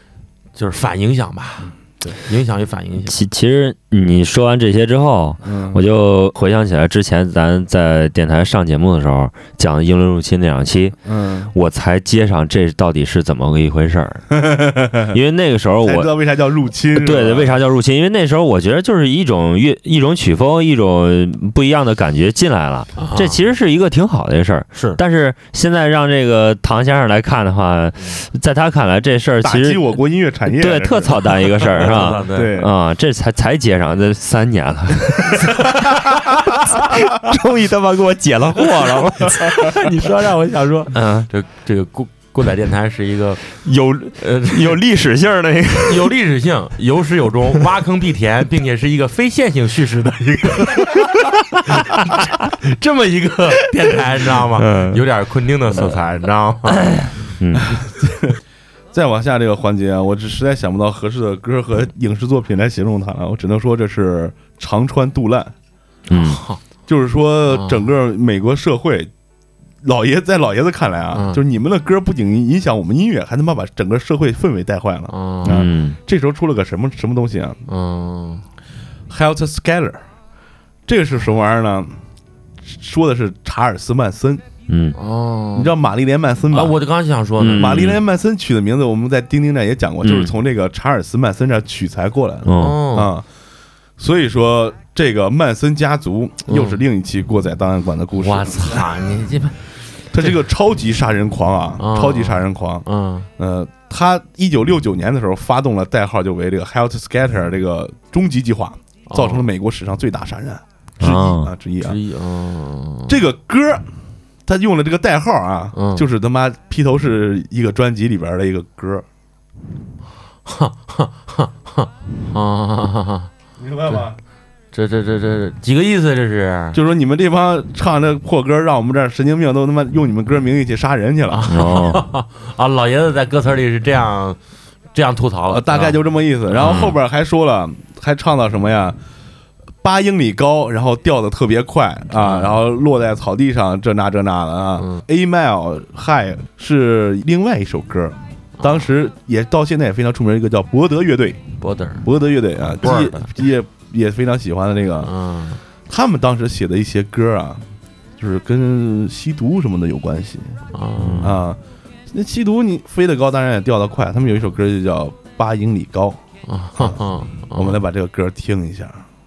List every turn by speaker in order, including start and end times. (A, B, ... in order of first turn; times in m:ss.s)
0:00.6-0:03.2 A
0:03.0-0:11.0 B
0:05.4-0:05.8 C
0:11.0-0:11.5 C
0:11.5-0:14.4 B
0:14.3-0:15.2 C
0:15.1-0:16.1 B
0:15.8-0:17.6 C
0:16.9-0:39.8 B
0:23.0-0:23.4 A
0:24.7-0:25.0 A
0:29.4-0:32.7 C
0:31.7-0:32.5 A
0:39.5-0:43.4 A
0:40.9-0:41.3 B
0:43.6-0:46.1 B
0:44.2-0:44.8 A
0:45.8-0:51.1 A
0:51.6-0:57.0 A
0:54.6-0:55.0 B
0:56.9-0:57.8 B
0:57.7-0:58.4 C
0:58.9-1:05.5 C
1:06.1-1:06.4 B
1:06.1-1:06.6 A
1:06.9-1:09.1 C
1:07.5-1:07.8 A
1:09.8-1:17.6 C
1:11.1-1:11.4 A
1:15.1-1:15.6 A
1:15.5-1:16.0 B
1:17.7-1:18.4 A
1:19.1-1:20.0 C
1:20.9-1:22.0 C
1:22.6-1:24.4 C
1:24.7-1:25.0 B
1:25.0-1:25.7 A
1:25.6-1:26.8 C
1:26.5-1:27.9 A
1:27.4-1:28.0 B
1:27.6-1:33.2 C
1:30.0-1:30.3 B
1:32.5-1:32.8 B
1:32.6-1:33.1 A
1:34.0-1:38.9 C
1:36.5-1:36.8 A
1:38.2-1:39.6 A
1:40.1-1:42.9 C
1:41.8-1:43.3 A
1:43.4-1:52.0 C
1:49.1-1:49.4 A
1:51.0-1:51.5 B
1:51.8-1:53.1 A
1:53.1-1:53.8 C
1:54.5-1:59.0 C
1:55.7-1:56.0 A
2:00.5-2:03.3 A
2:03.6-2:04.2 C
2:04.7-2:06.8 A
2:06.7-2:11.5 C
2:11.3-2:14.4 A
2:11.5-2:12.0 B
2:14.9-2:16.0 A
2:15.5-2:19.0 C
2:16.6-2:17.0 B
2:19.8-2:31.4 C
2:22.2-2:22.6 A
2:31.6-2:32.1 A
2:32.0-2:35.1 C
2:32.8-2:33.3 A
2:35.0-2:35.6 A
2:35.9-2:37.6 C
2:38.2-2:40.6 C
2:40.7-2:41.3 A
2:41.0-2:41.3 B
2:41.2-2:41.6 C
2:42.1-2:46.2 C
2:46.5-2:47.8 A
2:47.6-2:49.0 C